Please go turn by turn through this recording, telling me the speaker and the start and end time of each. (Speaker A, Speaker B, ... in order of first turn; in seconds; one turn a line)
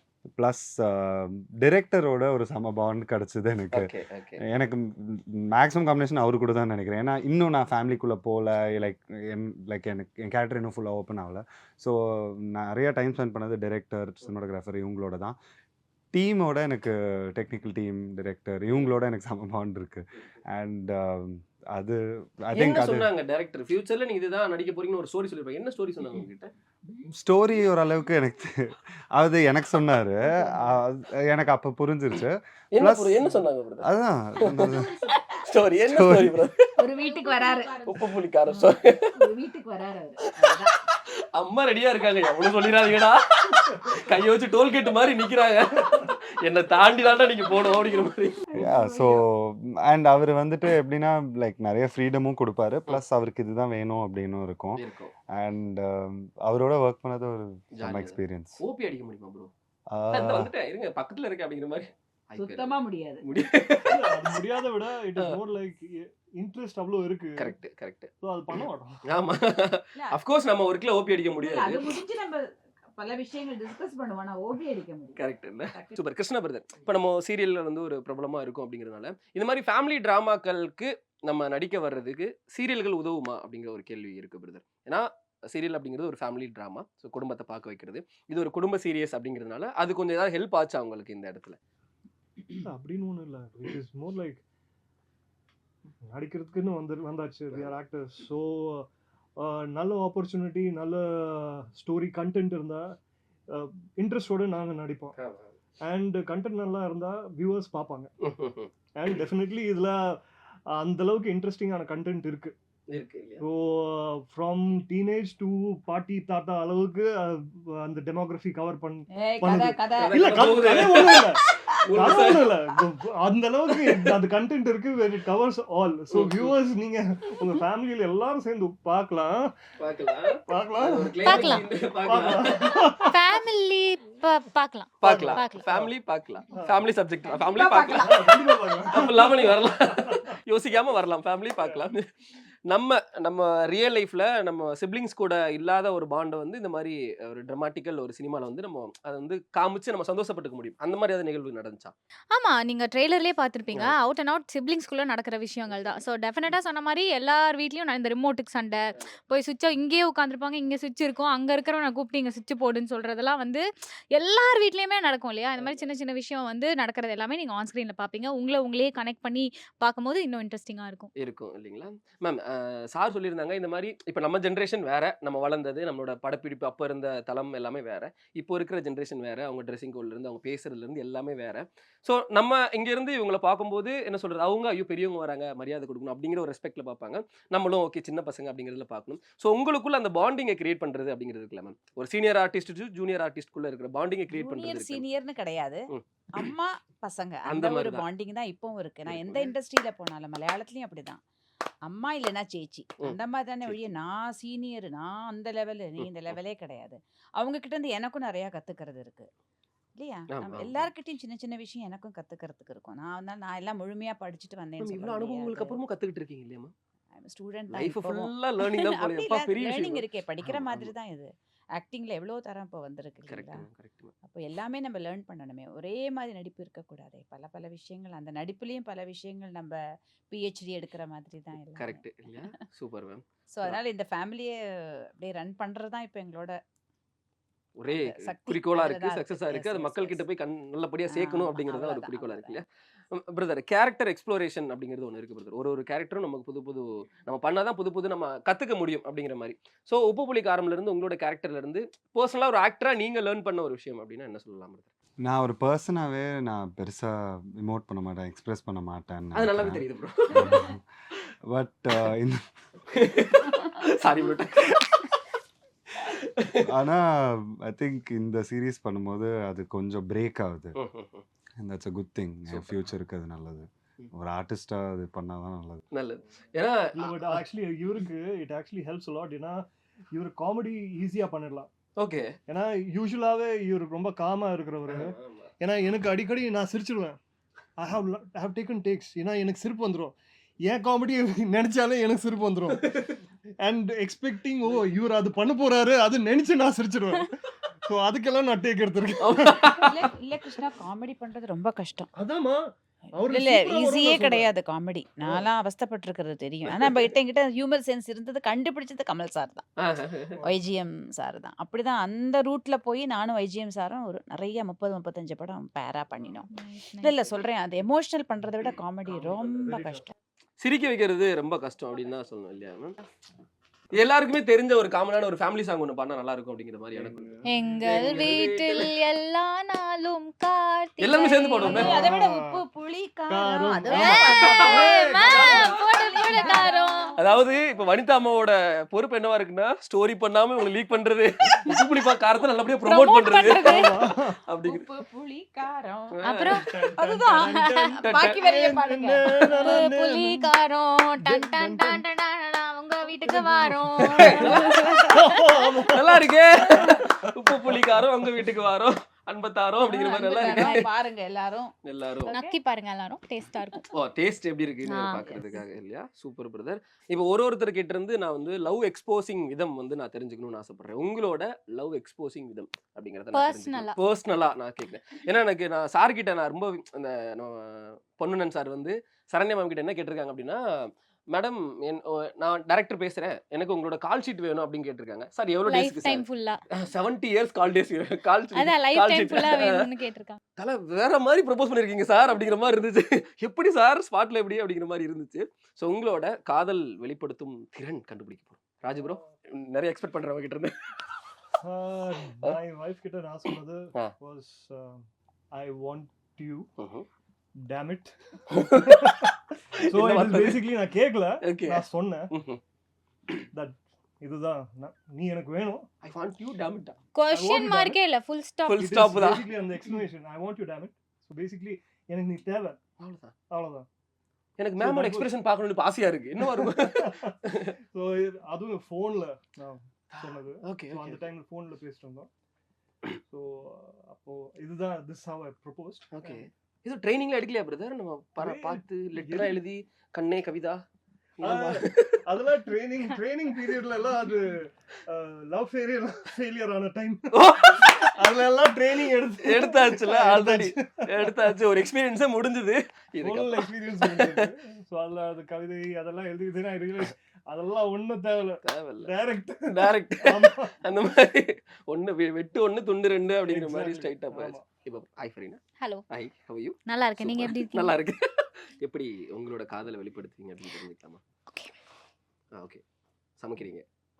Speaker A: 0.3-3.9
Speaker B: 3.7-4.4
Speaker A: 4.4-15.4
Speaker A: 16.1-23.1
Speaker B: 22.5-26.5
Speaker A: 27.1-35.0
Speaker C: 30.3-30.8
Speaker B: 32.7-33.9
Speaker B: 34.4-34.7
Speaker C: 34.6-35.4
Speaker B: 35.4-36.8
Speaker A: 35.8-36.5
Speaker C: 36.8-40.8
Speaker D: 37.0-37.9
Speaker B: 37.9-39.1
Speaker B: 41.3-48.4
Speaker C: 48.5-49.2
Speaker A: 48.6-58.6
Speaker B: 54.8-55.1
Speaker B: 57.8-59.5
Speaker A: 59.9-60.5
Speaker B: 60.1-64.4
Speaker C: 62.4-63.2
Speaker E: 63.9-67.5
Speaker B: 67.4-71.9
Speaker E: 68.2-69.0
Speaker C: 70.0-70.2
Speaker C: 71.3-72.5
Speaker C: 73.0-75.2
Speaker B: 75.2-91.6
Speaker C: 75.7-76.0
Speaker E: 92.6-94.4
Speaker E: 96.1-98.9
Speaker E: 99.4-103.0
Speaker E: 103.5-105.1
Speaker B: 105.1-105.5
Speaker E: 105.8-108.1
Speaker B: 108.2-109.2
Speaker E: 109.0-110.0
Speaker E: 110.7-112.5
Speaker B: 112.9-113.4
Speaker E: 113.4-121.4
Speaker C: 119.2-120.6
Speaker B: 120.0-122.5
Speaker E: 122.0-129.5
Speaker B: 123.8-124.1
Speaker B: 126.1-126.5
Speaker B: 129.8-132.7
Speaker E: 130.5-133.2
Speaker D: 131.2-131.6
Speaker D: 133.1-135.7
Speaker E: 135.0-135.9
Speaker B: 135.0-138.2
Speaker E: 136.5-136.8
Speaker C: 137.3-138.4
Speaker E: 137.6-140.3
Speaker B: 138.9-142.1
Speaker B: 142.7-151.9
Speaker D: 152.3-171.1
Speaker B: 165.6-165.8
Speaker B: 171.2-195.1
Speaker C: 194.3-201.2
Speaker B: 195.9-196.4
Speaker B: 197.5-198.1
Speaker B: 199.1-199.5
Speaker C: 201.8-209.3
Speaker B: 203.0-203.9
Speaker B: 206.0-206.4
Speaker C: 210.0-215.8
Speaker B: 210.3-210.9
Speaker B: 214.8-216.7
Speaker C: 217.2-223.7
Speaker B: 217.7-220.9
Speaker B: 223.3-224.1
Speaker C: 224.2-232.4
Speaker B: 231.8-233.8
Speaker C: 233.5-236.6
Speaker B: 237.8-254.9
Speaker C: 237.9-240.2
Speaker C: 241.1-242.6
Speaker A: 255.2-260.8
Speaker B: 259.4-260.6
Speaker A: 261.5-262.5
Speaker B: 262.9-265.1
Speaker B: 266.0-266.7
Speaker A: 266.7-270.8
Speaker B: 270.8-271.2
Speaker A: 271.6-275.8
Speaker B: 272.5-272.8
Speaker B: 275.9-277.4
Speaker E: 276.9-279.6
Speaker E: 280.1-281.7
Speaker B: 282.0-282.3
Speaker E: 282.5-287.2
Speaker B: 284.9-285.5
Speaker E: 287.8-290.1
Speaker E: 290.7-293.1
Speaker B: 292.8-293.2
Speaker E: 293.6-297.3
Speaker E: 297.9-299.8
Speaker B: 299.2-300.0
Speaker C: 299.7-302.1
Speaker E: 302.2-302.6
Speaker E: 303.1-304.5
Speaker C: 303.2-309.7
Speaker B: 306.7-307.1
Speaker B: 309.8-310.4
Speaker C: 310.4-316.5
Speaker D: 316.5-317.1
Speaker C: 317.0-320.1
Speaker E: 319.1-320.0
Speaker B: 320.6-323.0
Speaker B: 323.9-327.3
Speaker E: 327.0-328.1
Speaker D: 327.5-331.8
Speaker B: 327.8-328.9
Speaker B: 331.0-332.0
Speaker E: 331.6-332.6
Speaker C: 331.6-337.6
Speaker E: 333.3-335.6
Speaker D: 333.9-337.1
Speaker B: 335.2-335.8
Speaker B: 337.2-343.8
Speaker D: 342.9-343.9
Speaker E: 343.4-344.4
Speaker B: 344.5-344.9
Speaker C: 344.6-346.2
Speaker B: 346.2-346.6
Speaker D: 346.2-346.7
Speaker E: 346.6-350.5
Speaker C: 346.9-349.7
Speaker B: 348.0-348.4
Speaker D: 349.6-355.6
Speaker E: 351.2-352.0
Speaker E: 353.2-358.4
Speaker B: 354.1-354.7
Speaker C: 354.7-355.0
Speaker B: 355.9-360.9
Speaker C: 359.9-361.7
Speaker B: 361.9-362.3
Speaker C: 362.2-362.6
Speaker D: 362.3-363.9
Speaker B: 363.9-389.9
Speaker D: 364.9-365.3
Speaker C: 365.2-365.5
Speaker D: 373.3-374.0
Speaker D: 385.7-386.6
Speaker D: 388.6-390.4
Speaker B: 390.6-400.8
Speaker E: 401.6-406.7
Speaker B: 406.8-407.1
Speaker E: 407.7-412.3
Speaker B: 408.5-410.7
Speaker B: 411.4-412.6
Speaker E: 413.5-415.9
Speaker B: 416.0-417.0
Speaker D: 417.1-418.8
Speaker E: 417.3-418.0
Speaker B: 418.7-419.5
Speaker E: 418.8-422.8
Speaker B: 423.0-423.3
Speaker E: 423.5-423.9
Speaker B: 424.6-427.8
Speaker E: 424.8-425.3
Speaker E: 426.4-427.4
Speaker E: 427.9-432.3
Speaker B: 430.1-431.2
Speaker E: 433.3-436.4
Speaker B: 436.1-440.8
Speaker E: 438.4-439.6
Speaker B: 441.4-442.2
Speaker E: 441.4-451.5
Speaker B: 447.3-448.1
Speaker B: 449.4-454.5
Speaker E: 453.2-460.8
Speaker B: 458.7-459.1
Speaker B: 459.6-471.2
Speaker E: 463.5-464.7
Speaker D: 465.8-466.0
Speaker D: 466.9-468.0
Speaker D: 471.5-471.8
Speaker B: 472.6-472.8
Speaker B: 473.4-473.9